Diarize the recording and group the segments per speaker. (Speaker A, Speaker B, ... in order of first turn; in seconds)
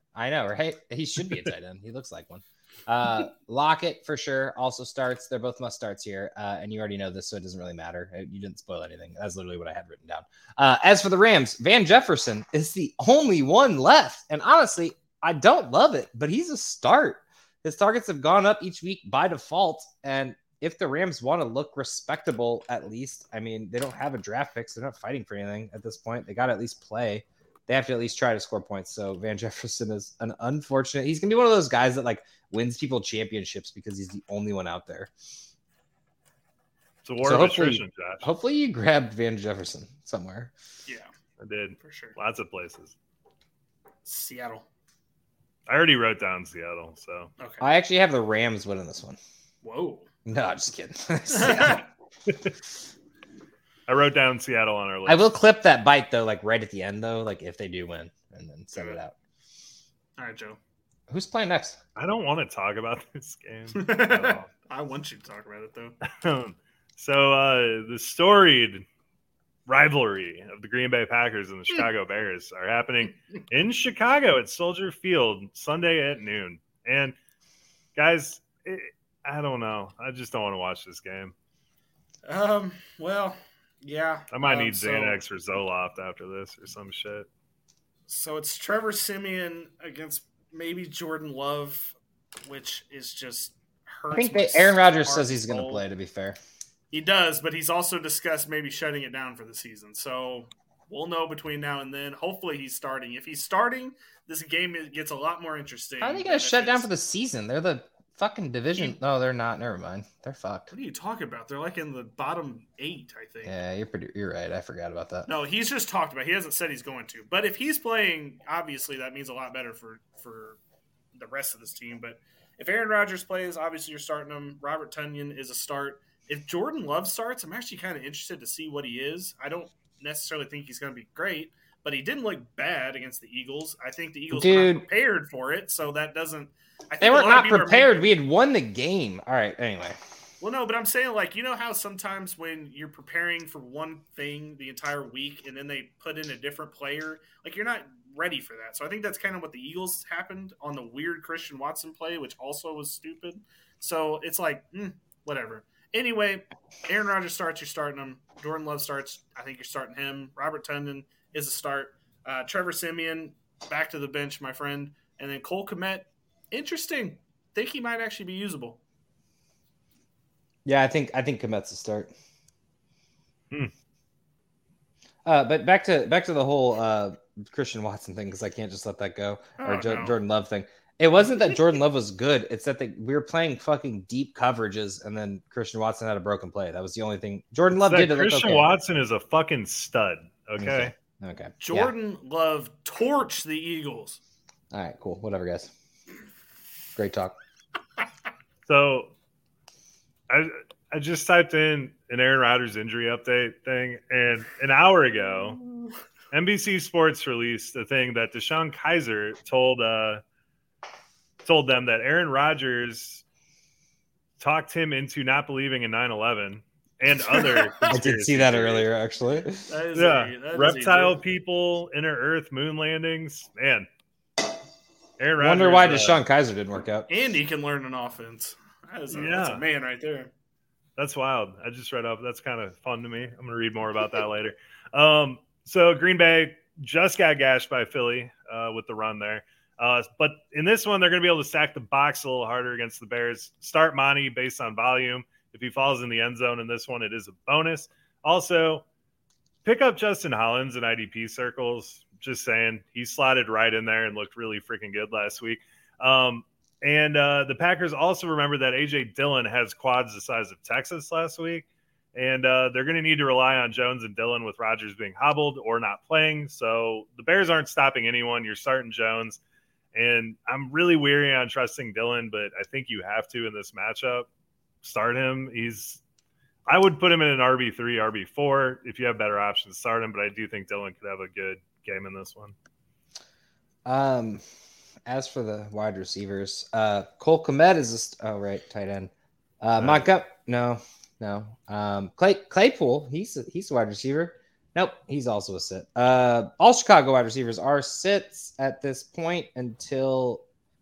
Speaker A: 0.1-35.1, 37.2-40.5, 47.6-49.2, 50.2-51.8, 55.1-59.1, 61.1-61.8, 94.1-96.4, 106.0-110.7, 113.4-115.3, 134.3-134.8, 137.0-140.0, 170.6-172.1, 175.2-188.7, 190.6-191.9, 194.7-195.7, 196.9-197.3, 217.9-219.7, 225.4-227.1, 283.9-284.4, 285.1-300.4
Speaker B: 37.0-38.3, 41.4-42.9, 45.7-47.3, 52.3-52.5, 53.9-55.3, 62.0-64.5, 66.1-68.8, 69.7-77.1, 78.0-81.3, 84.3-87.3, 187.7-190.9, 198.7-199.1, 200.3-205.7, 206.3-210.2, 211.4-213.2, 214.4-218.8, 219.9-223.9, 225.2-226.2, 229.1-229.6, 231.0-248.8, 249.6-269.4, 269.9-274.3, 274.8-276.0, 276.7-282.5, 289.8-290.1
Speaker C: 41.8-42.1, 44.0-44.6, 47.4-47.6, 49.6-50.1, 51.3-51.9, 58.7-59.0, 60.2-60.6, 63.7-66.0, 82.2-85.2, 88.1-95.8, 96.9-106.9, 110.7-113.5, 115.2-120.6, 121.1-138.1, 140.4-168.8, 179.6-180.2, 191.6-194.2, 217.2-218.0, 219.7-221.2, 227.1-230.3